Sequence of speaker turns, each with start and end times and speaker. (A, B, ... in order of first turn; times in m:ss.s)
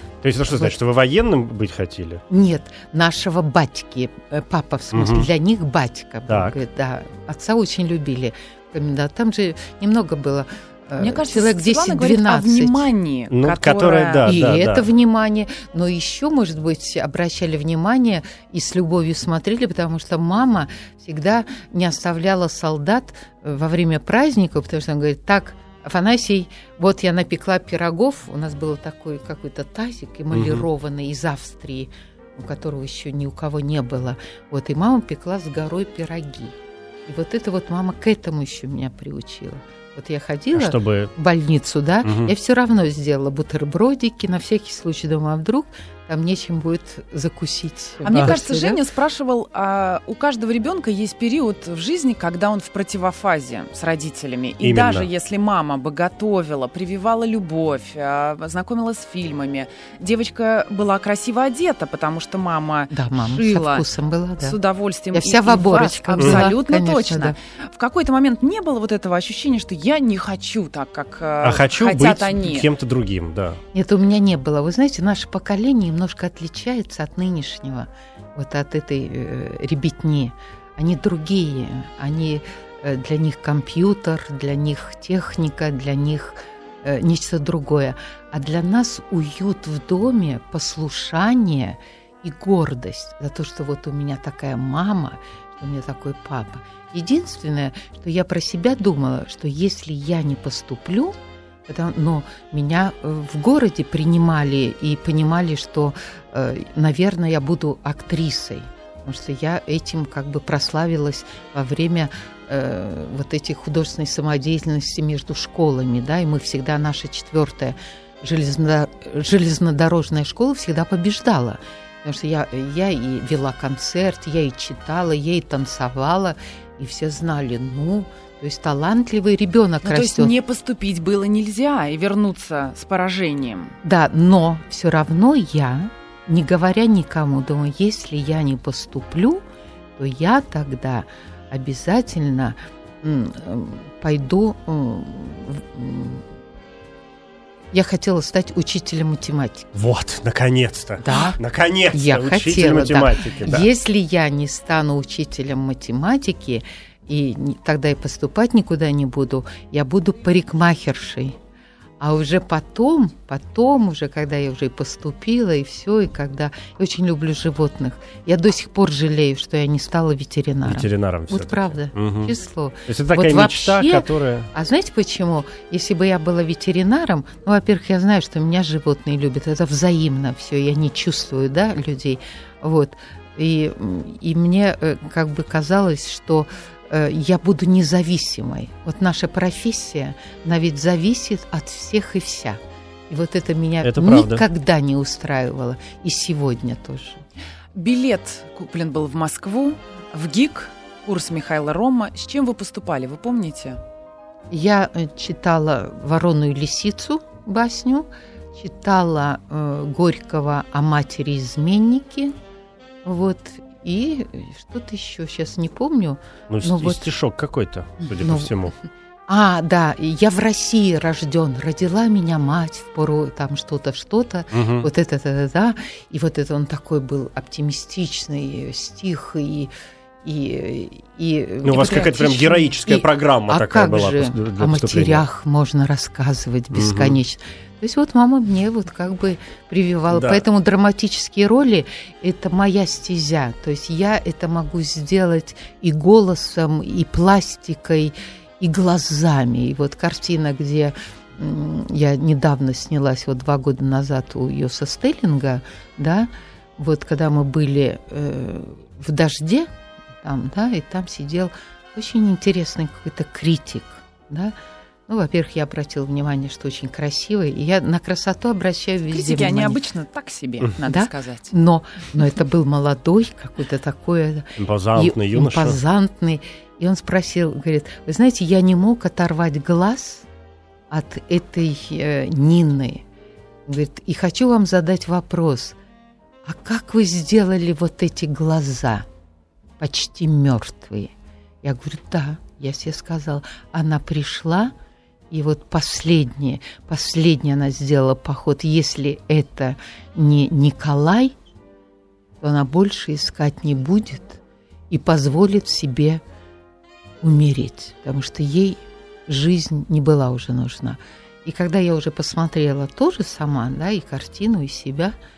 0:00.2-0:02.2 A
0:00.5-0:00.8 B
0:02.3-0:12.9 B
0:04.9-0:05.3 A
0:06.3-0:06.6 A
0:11.0-0:14.3 C
0:13.3-0:14.9 A
0:14.3-0:48.8 B
0:30.3-0:30.6 A
0:40.6-0:41.1 A
0:42.0-0:42.3 A
0:48.0-1:03.9 C
0:48.1-0:48.4 A
0:54.6-0:55.1 A
1:02.9-1:04.6 B
1:04.4-1:12.7 C
1:05.1-1:07.4 B
1:06.2-1:06.5 A
1:11.4-1:13.6 A
1:13.7-1:41.2 B
1:41.7-2:10.4 B
2:09.8-2:13.8 C
2:13.8-2:19.4 B
2:20.0-2:26.2 B
2:27.7-2:29.7 B
2:29.7-2:33.7 A
2:31.0-2:31.4 B
2:31.9-2:41.4 B
2:42.0-3:17.2 B
2:50.6-2:52.3 A
2:52.9-2:54.5 A
3:13.8-3:14.4 A
3:17.8-3:23.8 C
3:24.5-3:32.4 B
3:33.0-3:37.2 B
3:36.5-3:38.7 A
3:38.0-3:38.7 B
3:39.3-3:49.7 B
3:44.5-3:44.9 A
3:50.2-4:19.7 B
3:51.6-3:55.3 A
3:56.7-3:57.2 A
4:00.1-4:00.4 A
4:20.2-4:24.6 B
4:25.1-4:29.8 B
4:29.1-4:31.5 C
4:30.8-4:40.3 B
4:34.6-4:35.8 A
4:40.9-4:43.0 B
4:43.7-4:45.8 B
4:46.4-4:49.1 B
4:49.8-4:51.1 B
4:51.6-4:54.7 B
4:55.3-5:01.4 B
5:02.4-5:06.2 B
5:07.2-5:15.2 B